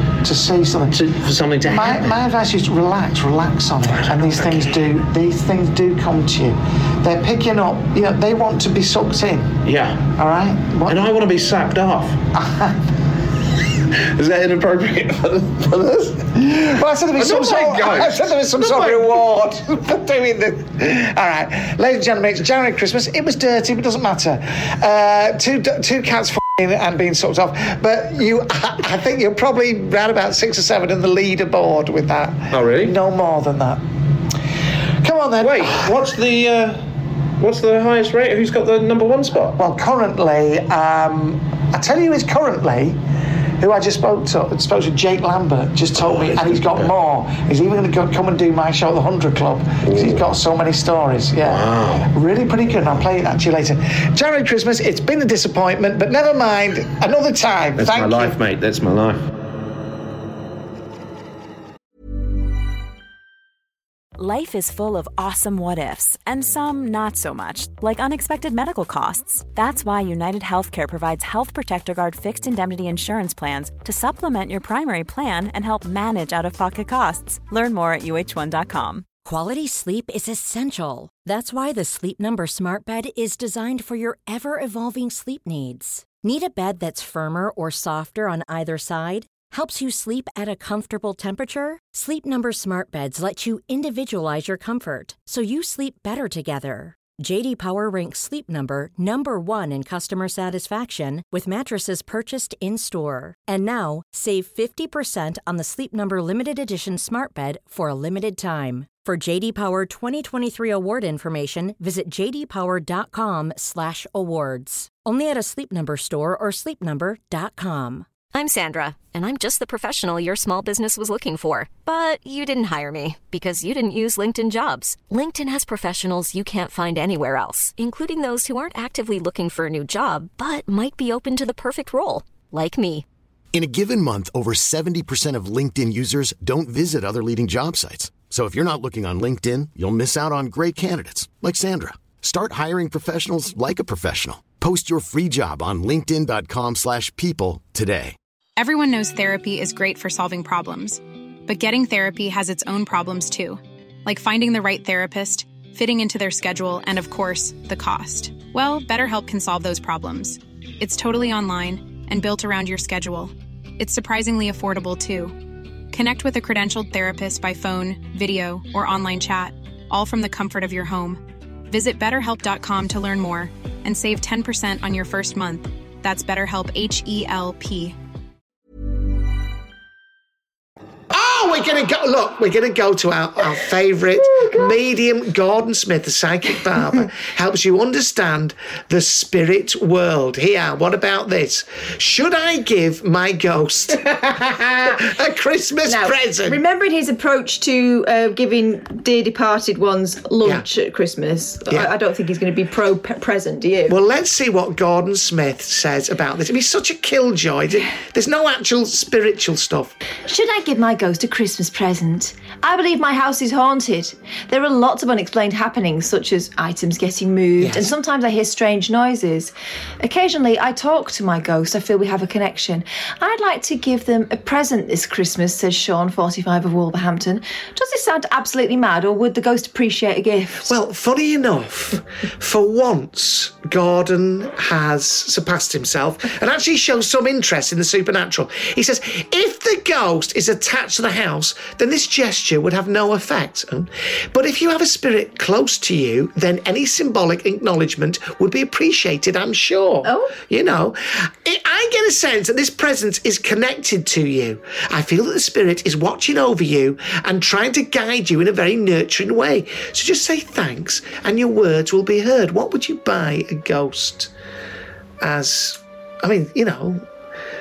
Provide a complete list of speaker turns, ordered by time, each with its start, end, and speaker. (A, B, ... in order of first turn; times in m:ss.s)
0:00.2-0:01.0 A
0:00.9-0:02.2 B
0:01.6-0:09.6 A
0:04.0-0:04.8 B
0:09.6-0:10.1 B
0:10.2-0:11.1 A
0:10.9-0:12.2 B
0:12.3-0:12.8 A
0:13.9-0:19.2 B
0:16.6-0:33.8 A
0:32.5-0:33.0 B
0:35.0-0:35.9 A
0:35.4-0:36.9 B
0:37.4-0:39.6 B
0:39.6-0:43.0 A
0:43.6-0:58.4 A
0:46.0-0:46.9 B
0:49.8-0:50.2 B
0:51.4-0:52.1 B
0:57.8-0:59.3 B
1:04.2-1:19.1 C
1:19.2-1:58.1 D
1:58.3-2:13.0 E
2:13.5-2:28.2 F
2:28.6-2:45.4 G
2:45.9-2:58.0 G
3:01.1-3:16.6 A
3:04.3-3:04.7 H
3:15.9-3:24.0 H
3:23.9-3:30.0 A
3:30.3-3:50.7 H
3:37.6-3:37.9 A
3:50.7-4:24.3 A
4:10.0-4:10.3 H
4:25.2-4:27.0 A